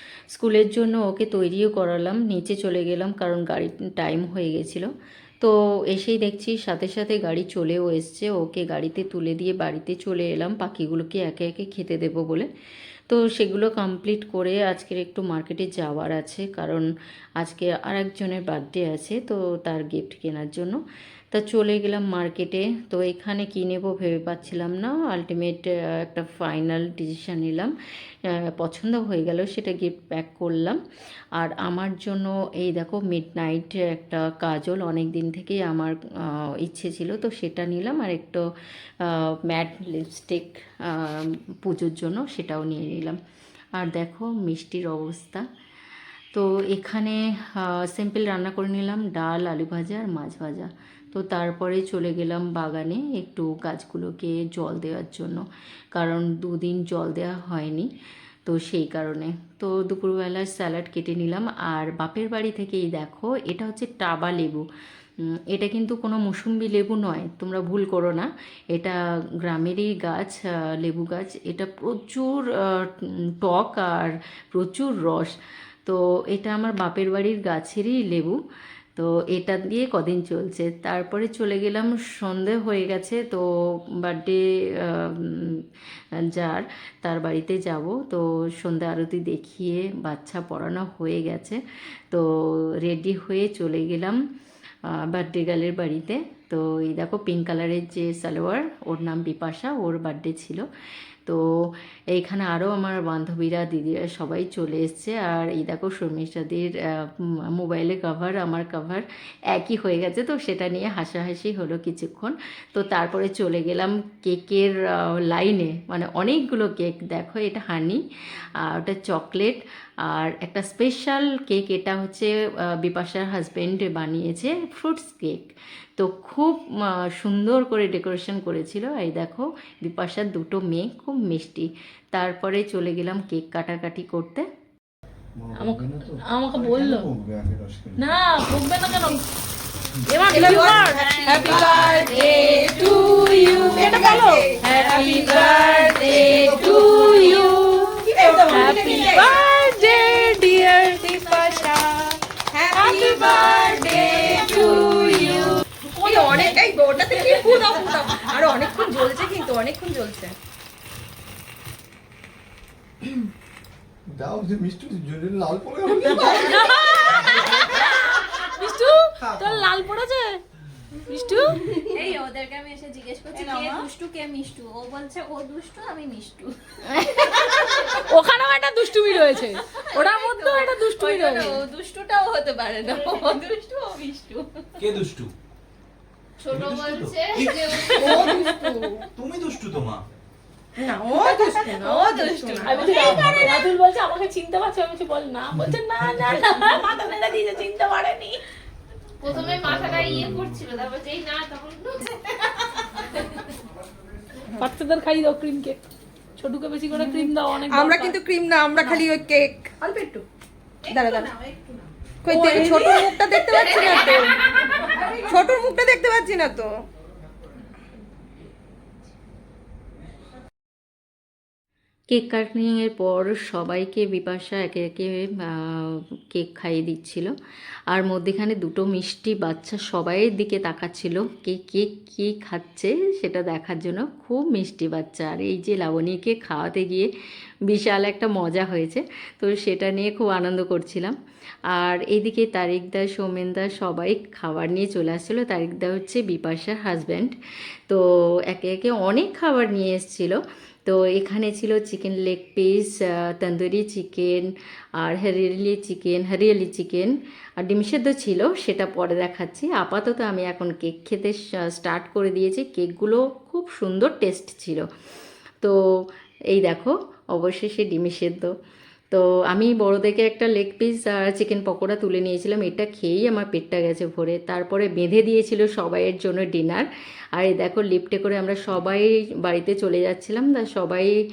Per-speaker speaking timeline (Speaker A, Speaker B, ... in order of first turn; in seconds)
Speaker A: 0.3-4.9, 5.4-12.5, 13.1-16.9, 17.4-20.8, 21.3-27.7, 28.6-30.8, 31.4-38.4, 39.0-43.2, 43.8-45.5, 46.3-57.9, 58.5-64.7, 65.5-78.4, 79.0-83.4, 84.0-85.6, 86.3-91.6, 92.1-94.2, 94.9-100.7, 102.1-118.0, 118.6-134.5, 222.1-227.3, 227.9-237.1, 237.7-241.2, 241.7-264.9, 266.5-268.5, 269.1-281.1
Speaker B: 135.3-138.1, 146.2-147.3, 164.1-167.6, 195.6-196.3, 199.3-200.6
Speaker C: 135.6-137.1, 138.0-139.2, 140.1-152.2, 152.7-158.9, 166.0-170.4, 171.1-172.1, 177.0-181.7, 187.8-188.4, 192.6-198.4, 204.6-205.8, 206.4-208.2, 212.3-214.4
Speaker D: 140.3-146.7, 148.0-149.3, 152.5-155.4, 156.0-160.4, 173.3-173.7, 187.9-189.0, 190.8-193.1, 207.0-210.2, 210.9-211.3, 212.2-216.8
Speaker E: 140.5-149.3, 151.0-151.8, 154.3-154.7, 171.1-178.1, 179.8-184.9, 186.4-188.9, 191.2-193.3, 199.2-202.1, 213.6-215.1
Speaker F: 184.8-185.3, 186.4-188.4, 189.2-190.0, 192.9-193.6